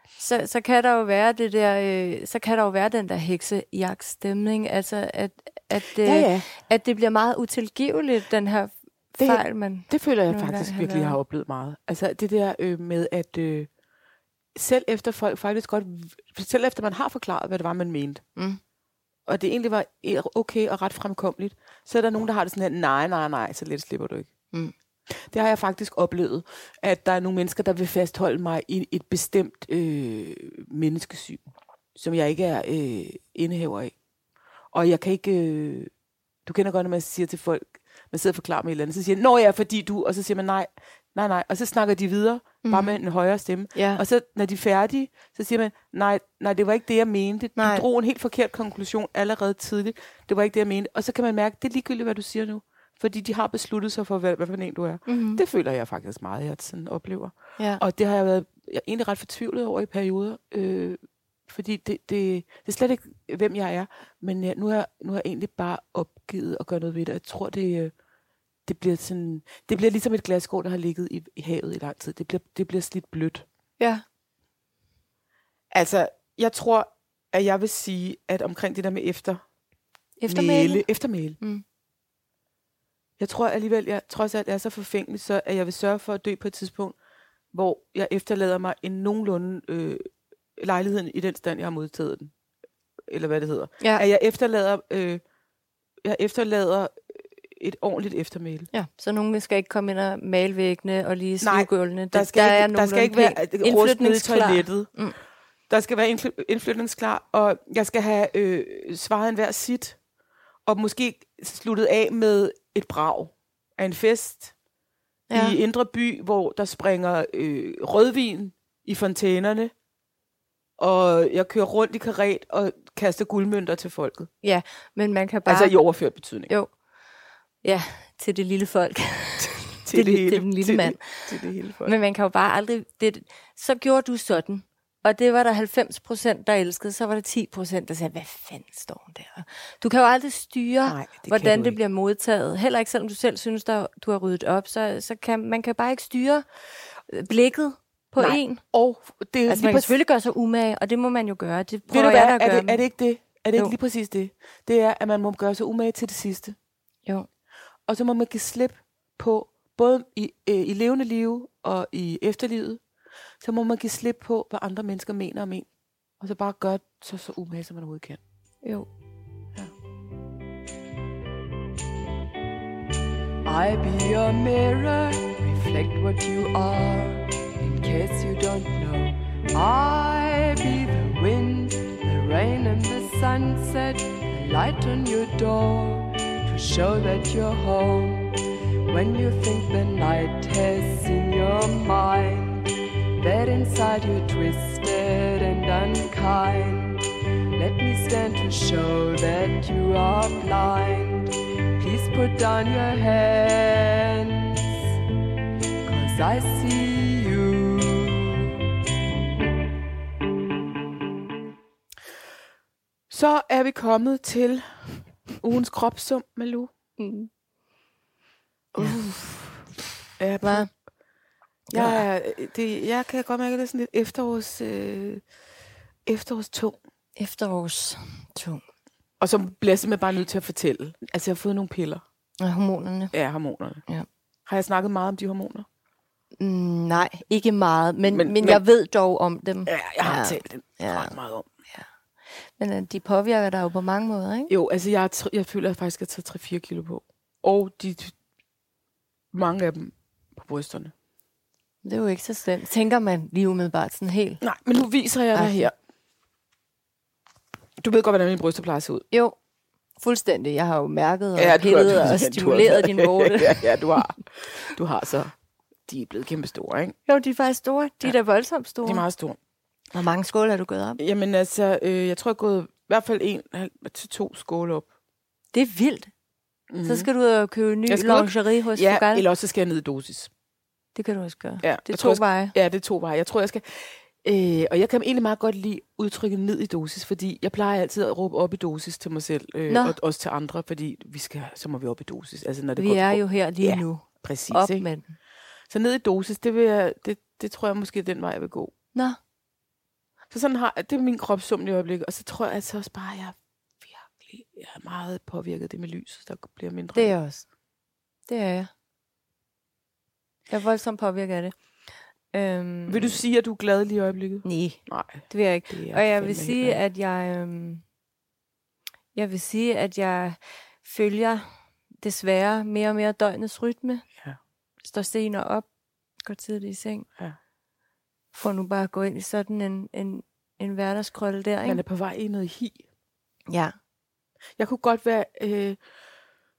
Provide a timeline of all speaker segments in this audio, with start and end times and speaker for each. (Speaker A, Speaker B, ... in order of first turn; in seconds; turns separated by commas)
Speaker A: 0.2-11.2, Speaker B: 6.0-6.5, Speaker B: 9.2-13.7, Speaker B: 14.6-18.2, Speaker B: 19.3-24.3, Speaker B: 25.1-33.9, Speaker B: 34.7-35.9, Speaker B: 36.5-67.9, Speaker A: 42.6-43.0, Speaker A: 43.7-44.0, Speaker A: 47.6-47.8, Speaker A: 55.1-55.4, Speaker B: 68.7-73.5, Speaker A: 73.8-74.0, Speaker B: 75.7-79.4, Speaker A: 80.2-80.8, Speaker B: 80.3-81.4, Speaker B: 83.2-87.0, Speaker B: 87.5-92.3, Speaker B: 93.1-95.2, Speaker B: 96.0-98.7, Speaker A: 98.7-105.2, Speaker B: 101.4-104.9, Speaker B: 105.7-110.0, Speaker B: 110.7-114.5, Speaker A: 115.3-115.6, Speaker B: 115.3-119.7, Speaker B: 120.8-124.3, Speaker A: 124.4-125.7, Speaker B: 125.5-126.5, Speaker A: 127.6-146.4, Speaker B: 129.4-131.9, Speaker B: 140.9-141.8, Speaker A: 147.1-148.6, Speaker B: 148.2-149.9, Speaker A: 149.5-152.8, Speaker B: 151.9-156.6, Speaker B: 157.9-162.8, Speaker B: 163.4-165.7, Speaker B: 166.2-168.2, Speaker A: 168.6-168.9, Speaker C: 173.4-188.3, Speaker C: 188.9-192.7, Speaker C: 193.2-197.0, Speaker C: 197.6-204.8, Speaker C: 205.8-208.5, Speaker B: 213.1-216.7, Speaker A: 217.0-217.3, Speaker B: 218.7-219.6, Speaker B: 220.2-220.7, Speaker A: 220.4-220.7, Speaker A: 221.7-222.0, Speaker B: 221.7-225.2, Speaker B: 226.1-226.8, Speaker A: 227.2-228.6, Speaker B: 229.2-232.0, Speaker A: 232.4-233.1, Speaker B: 233.1-233.8, Speaker B: 234.5-235.7, Speaker A: 236.4-241.1, Speaker B: 238.1-238.6, Speaker B: 239.7-241.5, Speaker A: 242.4-244.5, Speaker B: 244.5-248.1, Speaker B: 249.3-250.9, Speaker A: 251.8-254.4, Speaker B: 254.4-255.7, Speaker A: 255.3-255.7, Speaker B: 257.8-259.1, Speaker A: 260.0-263.8, Speaker B: 261.4-265.3, Speaker B: 265.9-266.9, Speaker A: 267.1-269.1, Speaker B: 268.8-269.4, Speaker A: 269.9-271.0, Speaker B: 271.0-274.9, Speaker A: 275.5-276.1, Speaker B: 276.7-277.1, Speaker A: 276.8-279.3, Speaker B: 277.9-280.3, Speaker A: 280.9-282.6, Speaker B: 281.6-294.9, Speaker A: 289.7-290.0, Speaker A: 292.8-295.1, Speaker B: 295.7-298.7, Speaker B: 300.3-307.1, Speaker A: 306.9-307.4, Speaker A: 308.3-308.7, Speaker A: 310.5-311.6, Speaker A: 312.3-313.2, Speaker B: 312.9-316.8, Speaker A: 314.4-317.8, Speaker A: 319.1-321.5, Speaker A: 322.0-324.1, Speaker A: 324.8-325.7, Speaker A: 326.2-327.1, Speaker A: 328.3-331.8, Speaker B: 331.6-332.8, Speaker A: 333.5-333.8, Speaker B: 334.6-335.8